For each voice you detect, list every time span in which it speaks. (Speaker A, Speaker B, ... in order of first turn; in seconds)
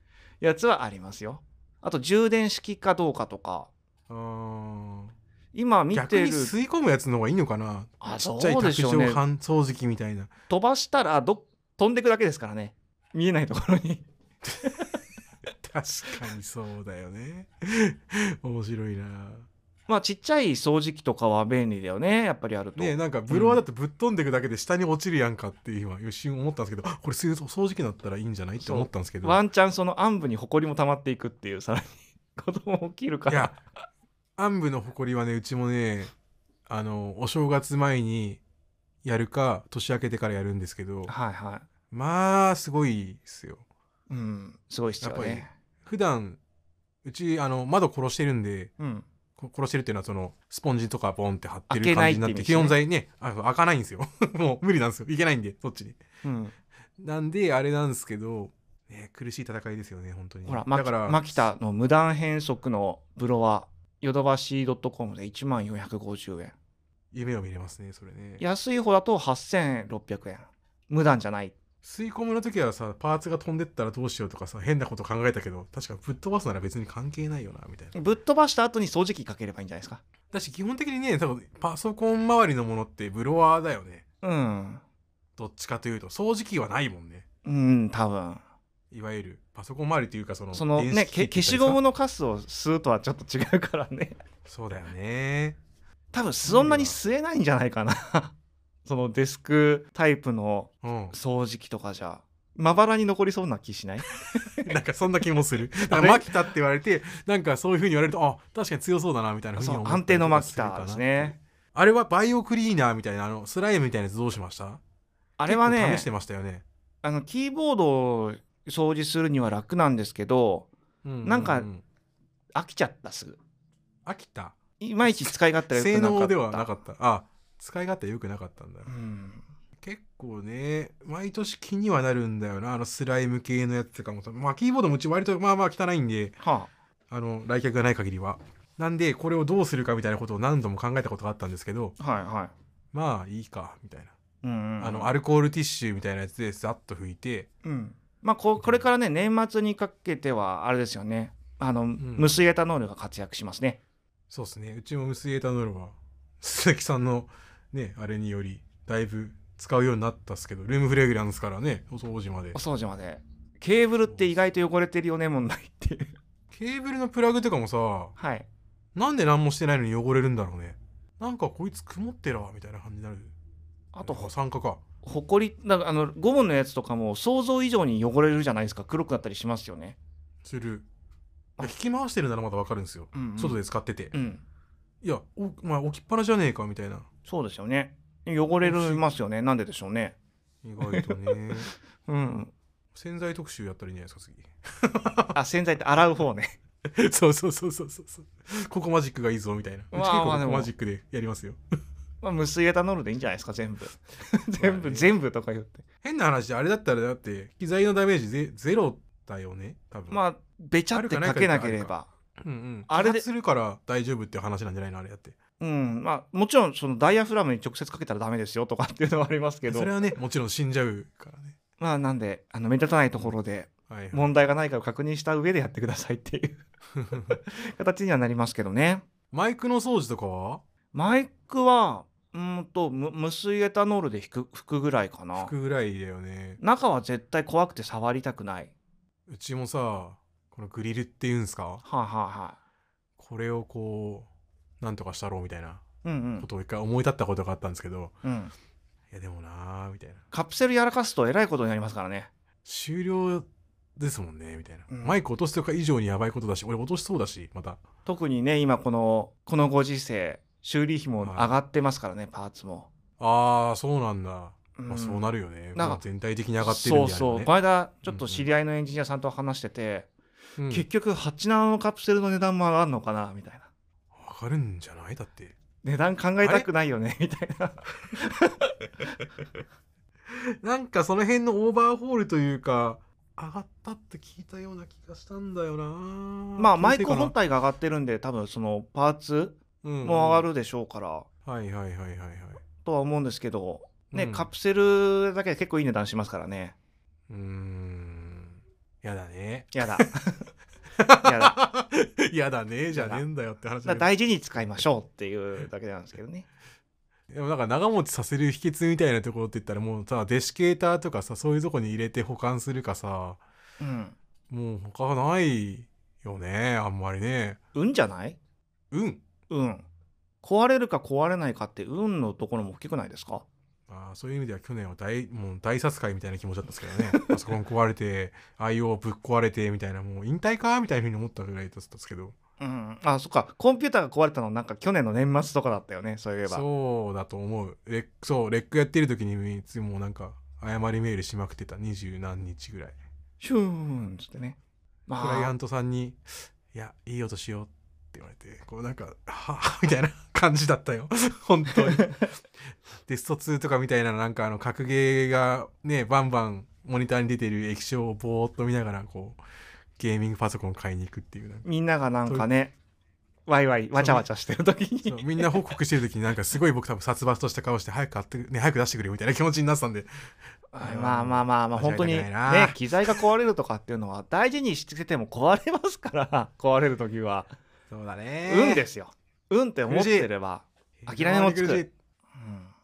Speaker A: 0.4-3.7, 5.5-6.5, 8.0-9.2, 10.5-14.1, 19.9-23.6, 28.6-33.6, 41.1-41.7, 44.1-45.5, 48.8-49.1, 51.7-52.8, 56.2-56.5, 60.5-66.5, 68.4-71.6, 77.9-80.0, 84.2-84.8, 87.5-88.4, 90.5-94.2, 96.1-98.3, 98.8-104.7, 105.9-106.3, 109.6-111.4, 115.4-116.1, 117.0-120.7, 121.2-121.7, 122.5-123.4, 124.8-126.7, 128.9-129.4, 136.4-136.7, 142.0-142.5, 144.4-145.1, 147.6-153.8, 162.5-166.1, 168.2-168.5, 173.9-174.3, 175.0-180.0, 183.1-183.6, 184.1-184.4, 187.3-190.2, 190.8-192.5, 195.3-196.6, 199.9-200.7, 202.2-205.8, 210.1-212.1, 212.9-213.2, 215.6-219.9, 221.8-226.6, 227.3-229.0, 230.9-235.5, 236.6-238.7, 241.8-242.6, 246.0-246.5, 248.2-248.5, 250.3-252.3, 254.9-255.2, 258.1-262.9, 264.8-266.0, 266.6-270.1, 270.7-273.7, 275.8-279.1, 286.6-291.3, 292.8-296.8, 299.7-300.5, 301.2-301.6, 302.9-303.2, 303.9-306.5, 313.8-314.1, 317.8-318.4, 319.5-319.9, 320.4-323.4, 332.6-336.6, 343.4-345.5, 361.6-362.7, 363.5-365.6, 370.7-377.5, 378.5-381.8, 382.3-382.7
Speaker B: 4.1-5.1, 5.9-10.3, 15.6-19.5, 22.8-29.4, 33.3-33.6, 34.4-36.1, 36.7-38.4, 39.0-41.1, 41.9-43.6, 45.0-46.4, 47.0-48.7, 49.4-56.0, 57.0-61.4, 67.1-68.4, 71.8-78.0, 80.3-84.0, 85.4-87.2, 88.9-91.8, 94.5-95.6, 96.5-97.0, 100.8-101.2, 104.1-114.8, 115.5-116.6, 121.0-121.8, 124.1-128.9, 129.8-136.4, 137.1-142.0, 142.9-144.2, 144.8-147.5, 152.0-152.3, 154.3-162.6, 166.5-168.1, 168.9-173.3, 174.0-174.8, 180.4-180.9, 181.6-184.1, 185.0-187.1, 188.6-189.0, 190.6-191.7, 192.9-195.4, 196.9-201.6, 204.6-205.1, 206.0-210.2, 210.9-215.4, 219.7-221.6, 223.9-224.3, 226.9-227.4, 229.3-230.6, 235.4-236.6, 239.3-241.8, 243.2-244.3, 244.8-245.8, 246.4-248.2, 249.1-250.2, 252.7-257.8, 261.2-261.6, 263.2-267.5, 268.1-268.5, 270.6-270.9, 274.1-275.6, 276.4-276.7, 280.3-287.4, 289.8-290.5, 291.4-292.6, 294.1-294.5, 297.3-300.1, 301.0-304.1, 307.3-313.4, 314.5-317.6, 318.9-319.2, 323.9-332.4, 336.5-343.0, 345.2-346.2, 346.7-352.2, 353.1-359.4, 360.0-361.7, 364.0-364.2, 365.1-370.1, 370.8-373.2, 377.9-378.9, 379.9-380.3, 381.0-381.9